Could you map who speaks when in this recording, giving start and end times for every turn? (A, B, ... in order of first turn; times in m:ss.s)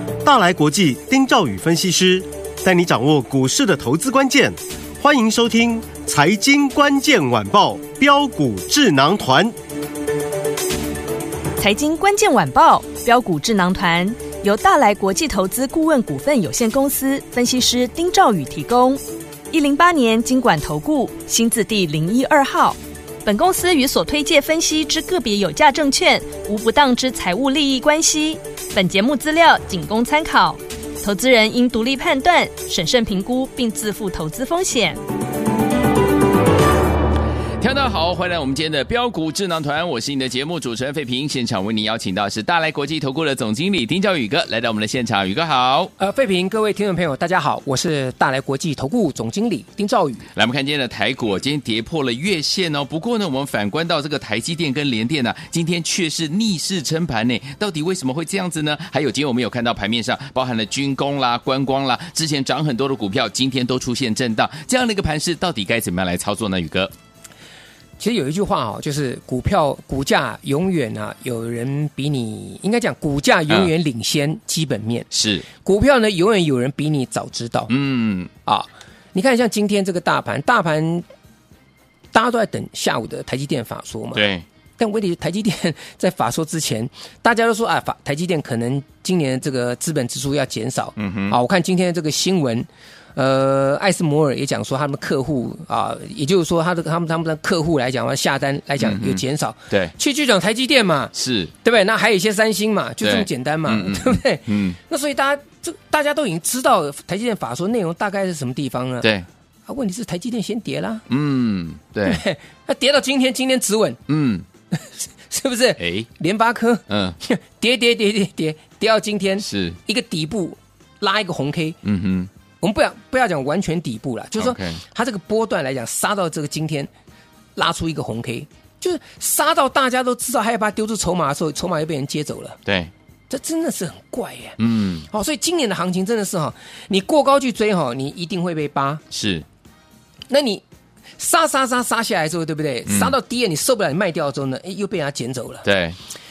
0:00.2-0:09.5 A
0:11.6-0:35.0 B
0:37.6-0:45.9 C
0:46.0-0:50.3 D
0:50.3-1:06.9 C
1:08.0-1:17.7 D
1:15.1-1:15.5 C
1:17.7-1:18.3 C
1:18.4-1:21.0 D
1:22.1-1:49.1 D
1:24.1-1:24.4 C
1:31.0-1:31.4 C
1:38.8-1:39.9 C
1:41.1-1:41.5 C
1:43.0-1:44.8 C
1:49.7-1:51.0 D
1:51.1-1:52.2 C
1:52.0-1:54.0 D
1:54.1-1:54.4 C
1:54.7-2:01.8 D
1:55.8-1:56.1 C
1:56.9-1:57.2 C
1:59.4-1:59.8 C
2:01.8-2:02.3 C
2:02.6-2:06.9 D
2:04.4-2:04.8 C
2:07.5-2:12.6 D
2:12.6-2:12.9 C
2:13.3-2:19.0 D
2:14.6-2:15.1 C
2:19.1-2:19.4 C
2:20.3-2:20.6 D
2:21.2-2:25.6 D
2:22.9-2:23.2 C
2:25.6-2:26.0 C